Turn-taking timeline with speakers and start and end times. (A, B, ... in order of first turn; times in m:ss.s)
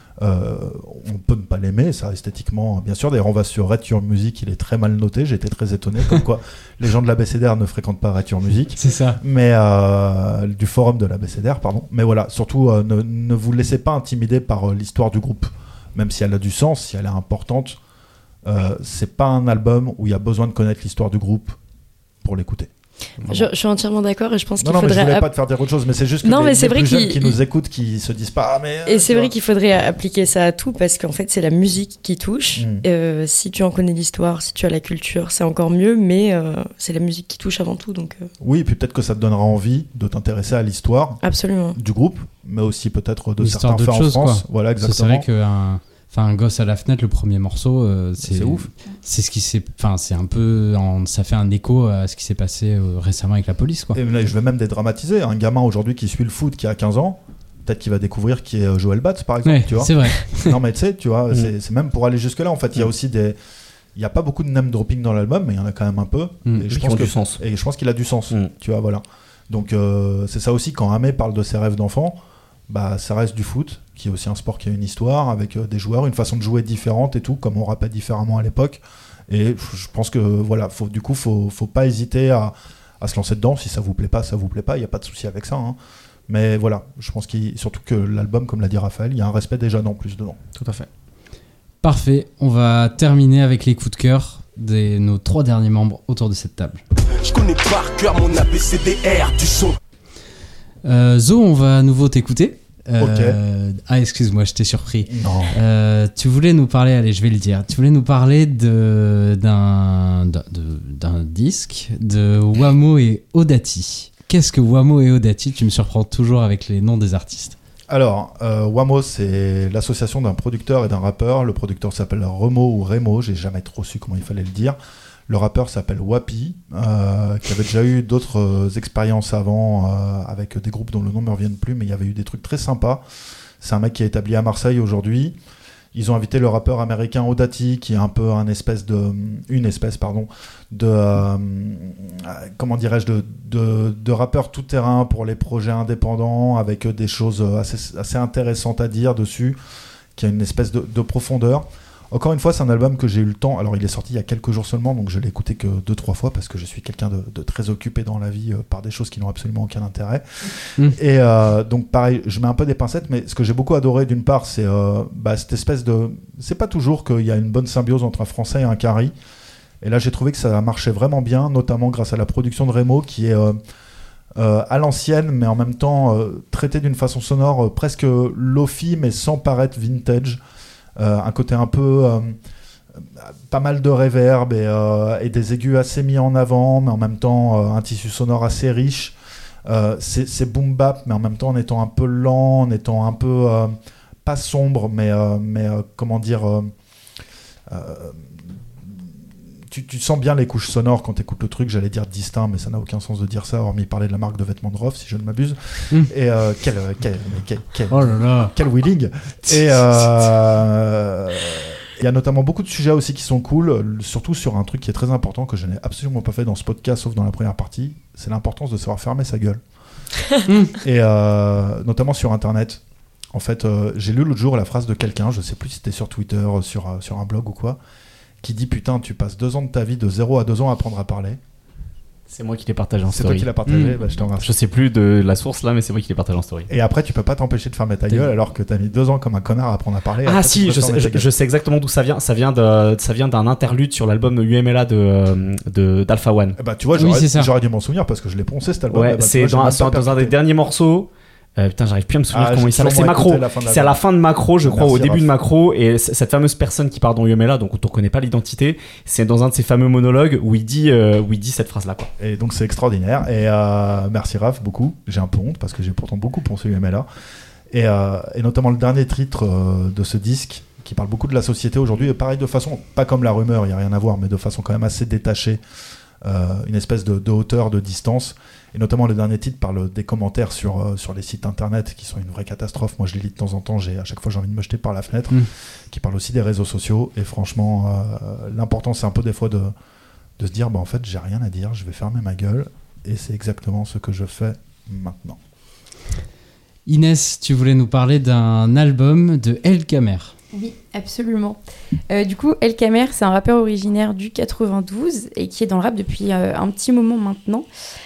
0:00.2-0:17.8 A
0:08.7-0:09.2 B
0:18.4-0:21.6 A
0:22.2-0:22.7 A
0:23.2-0:23.5 A
0:23.2-0:25.3 C
0:24.6-0:29.3 A
0:26.2-0:27.4 C
0:28.8-0:38.3 C
0:32.6-0:32.8 A
0:38.4-0:41.2 A
0:41.2-0:41.8 C
0:41.7-0:45.2 A
0:43.4-0:54.0 B
0:48.2-0:48.7 A
0:53.9-1:03.4 A
0:59.4-1:00.6 B
1:03.9-1:12.2 A
1:06.7-1:07.4 D
1:12.7-1:25.8 A
1:26.3-1:30.4 A
1:30.6-1:30.9 D
1:31.8-1:36.8 B
1:37.2-1:39.8 E
1:40.8-1:57.6 B
1:43.0-1:43.3 A
1:45.1-1:45.6 A
1:57.9-2:04.8 A
2:05.3-2:13.0 A
2:13.6-2:15.3 A
2:15.9-2:29.6 A
2:30.1-2:49.1 A
2:49.8-2:53.6 A
2:54.4-3:00.4 A
3:01.0-3:02.4 A
3:03.2-3:09.1 A
3:09.7-3:13.7 A
3:14.2-3:16.7 A
3:17.7-3:18.6 A
3:19.7-3:39.6 A
3:27.9-3:28.5 B
3:29.5-3:30.0 B
3:40.5-3:40.7 B
3:40.8-3:42.8 A
3:43.3-3:47.8 A
3:48.4-3:51.4 A
3:52.3-3:53.5 D
3:53.1-3:54.5 A
3:53.7-3:54.0 B
3:54.2-3:56.7 D
3:56.7-4:01.3 A
4:00.2-4:06.6 D
4:06.6-4:10.3 A
4:07.0-4:07.5 B
4:08.9-4:22.1 D
4:12.3-4:14.0 A
4:14.6-4:15.3 A
4:22.2-4:27.0 A
4:27.7-4:35.6 A
4:36.2-4:49.7 A
4:50.4-4:55.4 A
4:56.9-5:00.3 B
5:00.5-5:01.6 F
5:02.1-5:07.6 F